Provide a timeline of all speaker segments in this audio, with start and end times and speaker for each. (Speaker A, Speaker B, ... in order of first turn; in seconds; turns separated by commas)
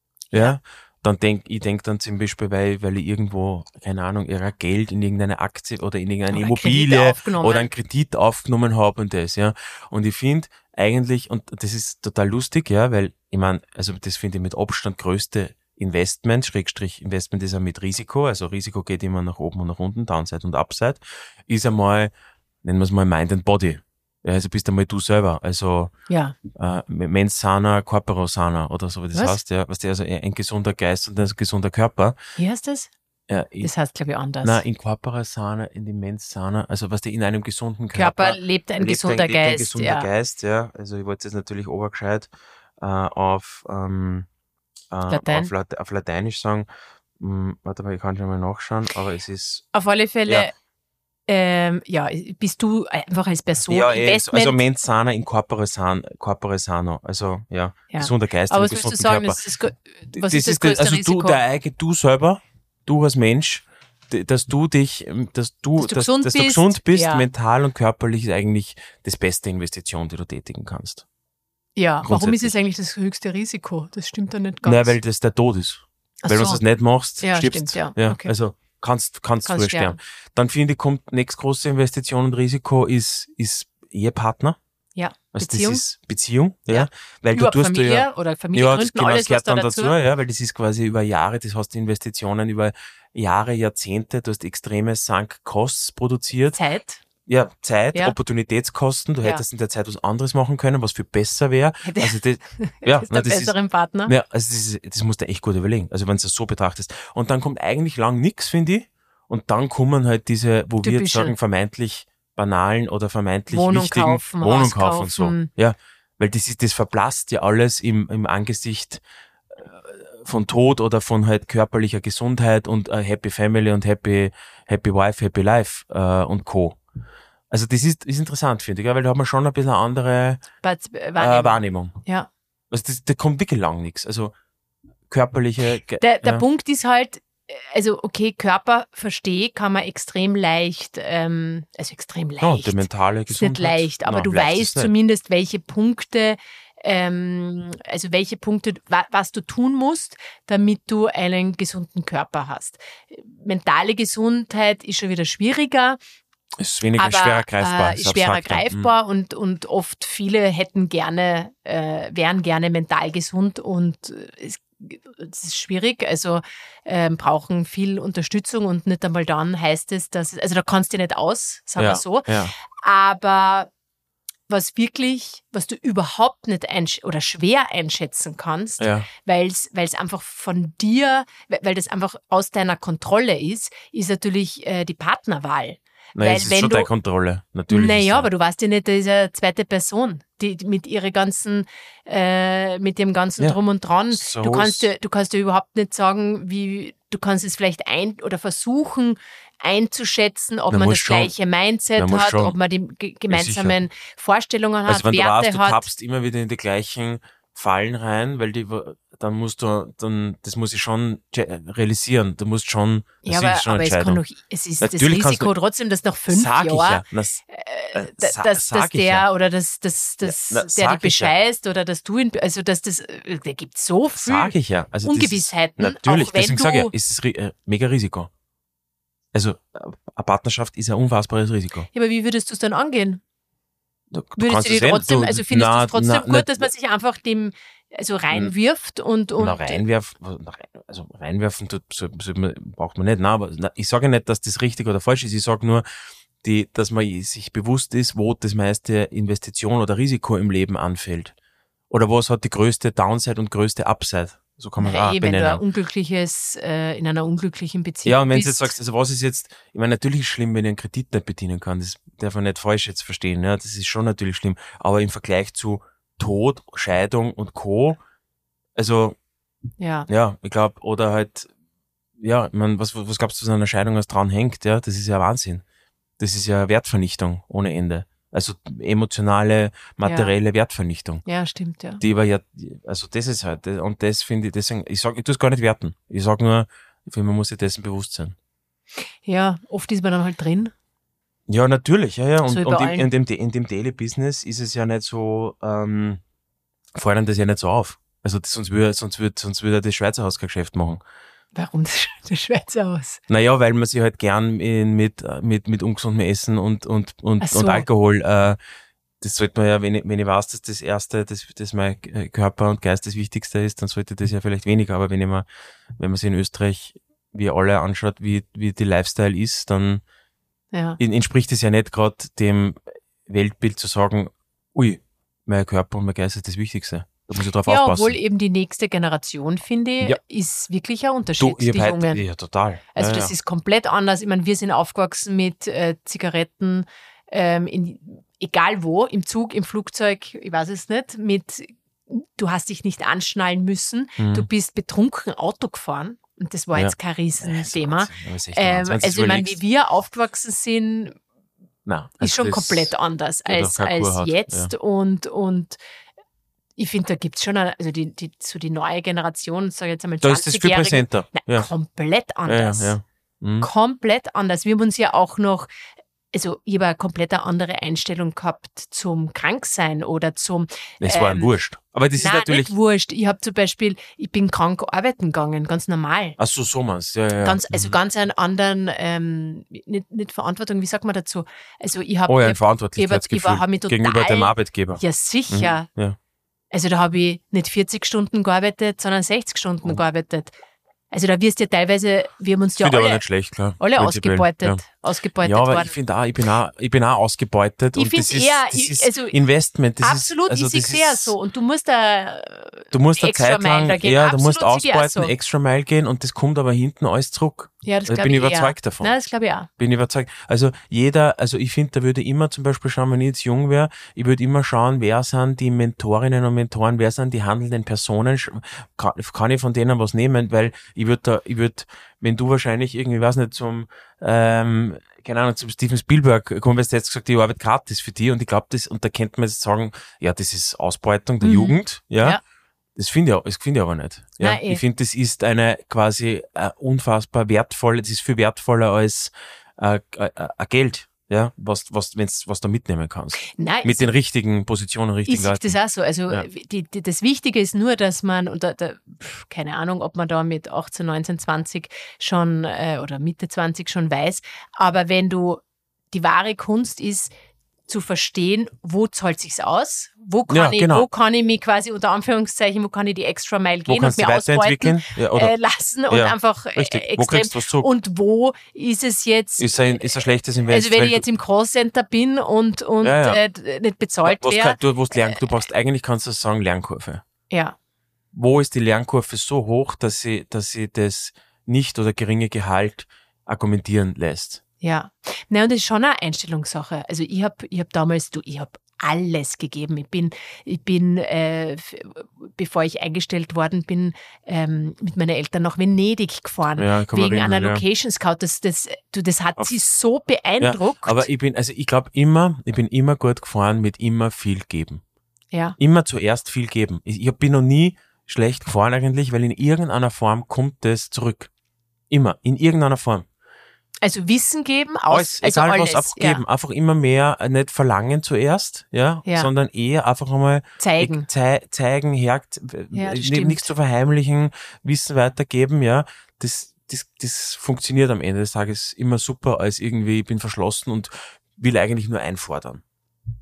Speaker A: 0.3-22.1, Speaker B: 6.3-7.7, Speaker A: 22.6-25.9, Speaker B: 26.1-26.4, Speaker A: 26.6-32.2, Speaker B: 29.1-29.4, Speaker B: 32.4-32.9, Speaker A: 33.3-33.7, Speaker B: 33.6-34.6, Speaker A: 34.4-44.3, Speaker B: 37.9-40.1, Speaker A: 44.9-46.7, Speaker B: 45.1-45.5, Speaker A: 47.2-49.7, Speaker B: 49.7-50.5, Speaker B: 51.3-54.6, Speaker A: 53.7-59.4, Speaker B: 57.9-61.4, Speaker A: 60.1-71.0, Speaker B: 65.8-67.3, Speaker B: 71.8-75.0, Speaker A: 72.0-72.5, Speaker A: 74.7-84.6, Speaker B: 76.2-76.6, Speaker B: 77.2-78.3, Speaker B: 79.5-80.0, Speaker B: 85.0-85.8, Speaker A: 85.3-96.6, Speaker B: 86.7-90.0, Speaker B: 96.5-97.0, Speaker A: 97.3-119.0, Speaker B: 101.8-104.1, Speaker B: 110.8-111.3, Speaker B: 113.5-115.5, Speaker A: 119.5-126.8, Speaker A: 127.5-130.4, Speaker B: 130.6-132.3, Speaker A: 131.2-132.0, Speaker A: 132.7-134.3, Speaker A: 135.1-136.4, Speaker B: 136.0-156.0, Speaker A: 142.4-144.9, Speaker A: 156.6-158.9, Speaker B: 157.0-173.7, Speaker A: 171.8-172.6, Speaker B: 174.5-186.9, Speaker A: 178.8-179.1, Speaker A: 186.2-188.3, Speaker B: 187.7-205.9, Speaker A: 194.1-194.9, Speaker A: 200.7-201.3, Speaker A: 202.0-202.6, Speaker A: 203.3-203.8, Speaker A: 204.9-214.2, Speaker B: 213.2-226.9, Speaker A: 214.8-215.5, Speaker A: 216.3-217.4, Speaker A: 217.9-219.3, Speaker A: 220.2-221.3, Speaker A: 224.2-228.3, Speaker A: 229.3-231.9, Speaker B: 231.9-233.2, Speaker A: 234.1-236.7, Speaker B: 234.4-239.8, Speaker A: 239.4-245.8, Speaker A: 246.4-251.3, Speaker A: 251.9-255.6, Speaker B: 254.8-258.7, Speaker A: 258.1-268.0, Speaker A: 268.8-269.2, Speaker B: 269.8-270.1, Speaker A: 270.1-271.5, Speaker A: 272.2-275.6, Speaker A: 276.2-281.2, Speaker B: 280.0-280.3, Speaker B: 281.3-282.0, Speaker A: 282.0-288.4, Speaker B: 289.2-290.7, Speaker A: 291.5-296.2, Speaker B: 292.5-293.1, Speaker A: 296.9-301.0, Speaker B: 301.6-303.2, Speaker A: 303.3-308.6, Speaker B: 307.4-307.9, Speaker A: 309.2-315.5, Speaker A: 316.0-320.0, Speaker B: 320.7-321.0, Speaker A: 321.0-328.2, Speaker B: 327.6-332.2, Speaker A: 331.4-333.3, Speaker B: 332.9-351.2, Speaker A: 344.2-344.5, Speaker A: 346.7-349.6, Speaker A: 351.9-352.9, Speaker B: 352.2-355.8, Speaker A: 353.5-354.7, Speaker B: 356.8-363.0, Speaker A: 360.2-361.7, Speaker A: 362.4-363.7, Speaker B: 363.6-365.7, Speaker B: 366.3-371.5, Speaker A: 371.0-372.7, Speaker B: 372.2-376.4, Speaker A: 376.4-378.0, Speaker B: 377.4-385.9, Speaker A: 382.3-386.2, Speaker B: 386.7-390.5, Speaker B: 391.1-393.2, Speaker A: 392.8-394.8, Speaker B: 393.8-396.0, Speaker A: 395.4-401.4, Speaker B: 397.9-399.4, Speaker B: 400.0-405.3, Speaker A: 402.9-409.1, Speaker B: 407.8-409.7, Speaker A: 409.8-432.4, Speaker B: 431.4-432.4, Speaker A: 433.0-445.8, Speaker B: 434.4-434.8, Speaker B: 443.5-444.1, Speaker B: 445.3-457.3, Speaker B: 457.9-475.4, Speaker A: 460.5-461.1, Speaker A: 463.9-465.6, Speaker A: 466.1-467.9, Speaker A: 469.6-471.2, Speaker A: 473.0-473.4, Speaker A: 474.2-477.2, Speaker B: 477.5-477.8, Speaker A: 478.3-484.6, Speaker B: 484.8-501.3, Speaker A: 496.8-497.8, Speaker A: 500.6-505.0, Speaker A: 505.8-511.5, Speaker A: 512.1-513.3, Speaker B: 514.0-516.4, Speaker A: 515.1-532.8, Speaker B: 519.2-519.5, Speaker B: 520.8-521.3, Speaker B: 522.9-523.7